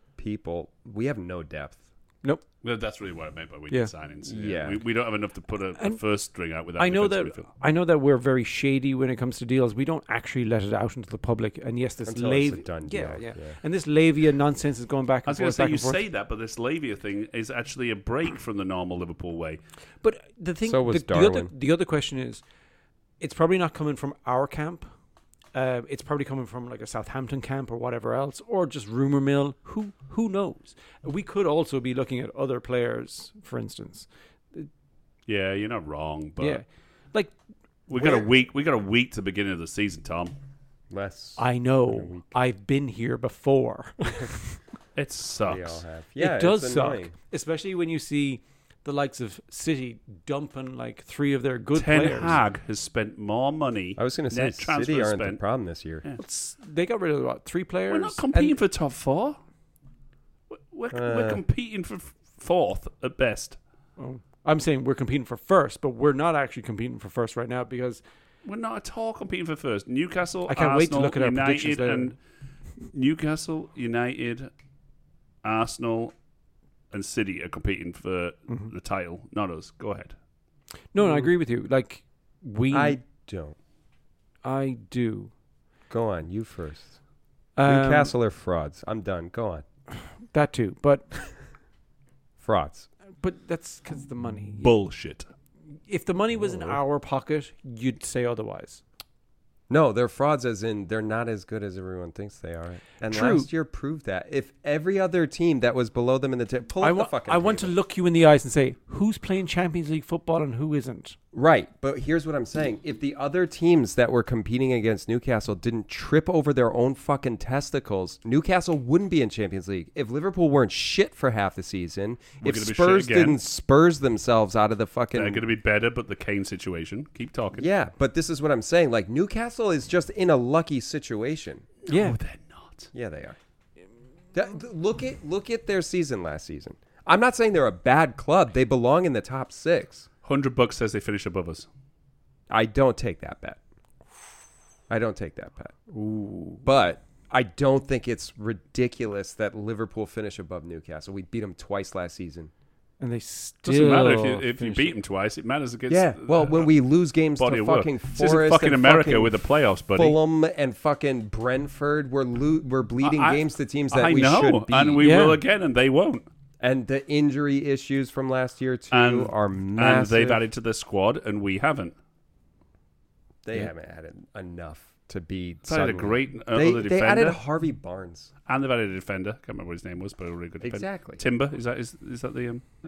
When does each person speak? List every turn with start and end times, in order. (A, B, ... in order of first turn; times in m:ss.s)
0:00.2-0:01.8 A
0:02.6-0:07.5 B
0:04.2-0:04.8 A
0:06.8-0:16.0 C
0:12.0-0:13.6 A
0:15.3-0:19.6 B
0:20.0-0:22.4 C
0:20.6-0:21.5 A
0:23.2-0:24.9 C
0:25.5-0:34.7 C
0:35.3-0:36.6 B
0:36.4-0:37.3 C
0:37.9-0:40.3 B
0:40.9-0:42.4 A
0:41.4-0:44.6 C
0:45.0-0:45.8 B
0:45.5-0:47.1 A
0:46.2-0:52.4 C
0:51.8-0:55.4 B
0:54.0-0:56.0 A
0:56.2-0:58.6 C
0:57.9-0:59.4 B
1:00.5-1:03.6 B
1:00.9-1:01.4 A
1:04.0-1:08.0 C
1:08.4-1:12.2 B
1:10.5-1:12.1 C
1:12.9-1:14.5 B
1:15.4-1:16.1 B
1:16.9-1:20.2 B
1:20.9-1:23.0 C
1:22.7-1:23.6 A
1:24.4-1:25.3 C
1:25.9-1:26.9 A
1:27.6-1:28.1 C
1:27.6-1:29.6 A
1:30.3-1:31.3 C
1:32.4-1:32.9 A
1:33.2-1:34.7 C
1:34.6-1:35.3 B
1:35.9-1:38.8 C
1:39.7-1:47.7 A
1:43.1-1:43.5 C
1:46.8-1:51.2 C
1:51.3-2:05.4 A
2:02.4-2:03.4 B
2:05.1-2:07.7 B
2:07.6-2:11.7 A
2:11.9-2:12.2 C
2:11.9-2:12.9 B
2:12.9-2:13.4 A
2:14.3-2:20.1 A
2:20.2-2:21.7 B
2:22.5-2:23.6 A
2:24.9-2:25.7 A
2:25.9-2:26.6 C
2:26.6-2:32.5 A
2:33.0-2:34.9 C
2:33.6-2:36.7 B
2:35.9-2:39.4 A
2:37.4-2:40.2 B
2:39.9-2:45.0 A
2:43.0-2:46.2 B
2:45.0-2:45.4 C
2:46.6-2:50.4 A
2:48.9-2:51.9 B
2:53.4-2:58.3 A
2:55.7-2:57.4 B
2:58.5-3:02.6 B
3:00.6-3:01.2 A